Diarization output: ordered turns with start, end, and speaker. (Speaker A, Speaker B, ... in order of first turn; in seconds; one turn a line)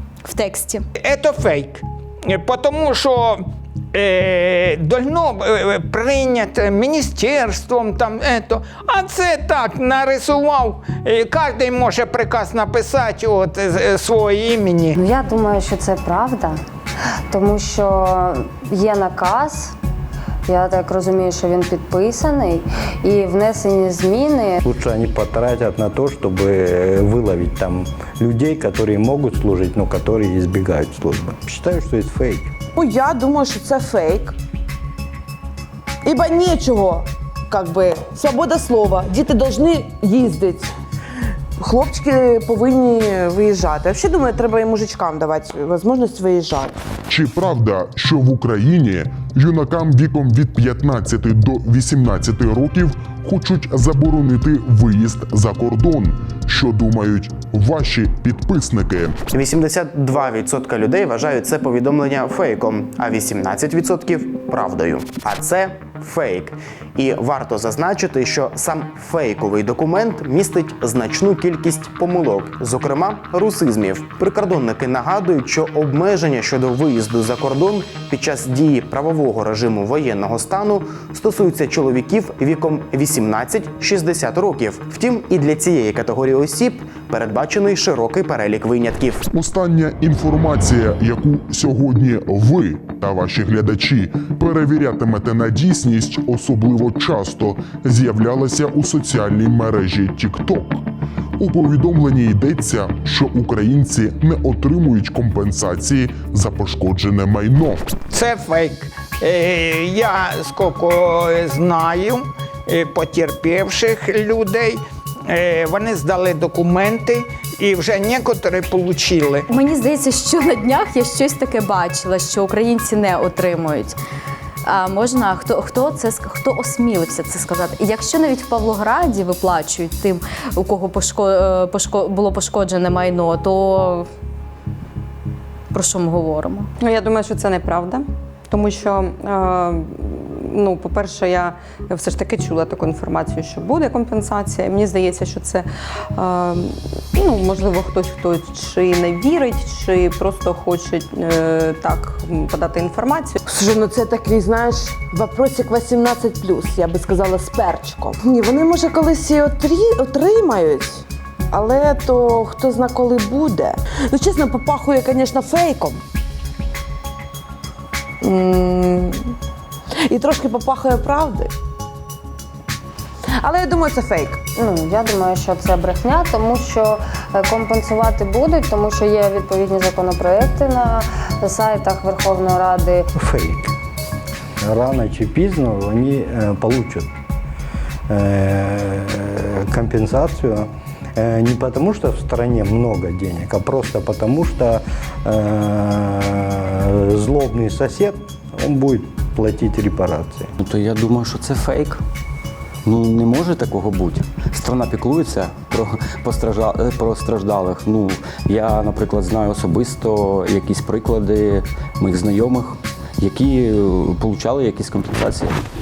Speaker A: 0.2-0.8
Speaker B: 0.9-15.0
Speaker C: 15.0-16.6
Speaker C: 17.3-19.8
Speaker C: 20.5-24.6
Speaker D: 24.6-32.5
Speaker E: 32.8-34.4
Speaker E: 36.0-40.7
Speaker E: 41.6-46.8
Speaker F: 47.1-59.2
Speaker G: 59.3-89.2
Speaker F: 89.3-100.8
Speaker F: 101.4-107.8
Speaker B: 108.1-119.5
Speaker A: 119.5-124.0
Speaker A: 124.7-134.1
Speaker A: 135.7-136.7
Speaker H: 136.8-153.4
Speaker E: 153.5-166.0
Speaker E: 168.2-169.3
Speaker E: 170.1-171.5
Speaker E: 173.4-174.4
Speaker C: 174.6-183.1
Speaker D: 183.2-183.7
Speaker D: 184.6-187.1
Speaker D: 188.1-200.5
Speaker I: 200.6-202.0
Speaker I: 202.8-215.6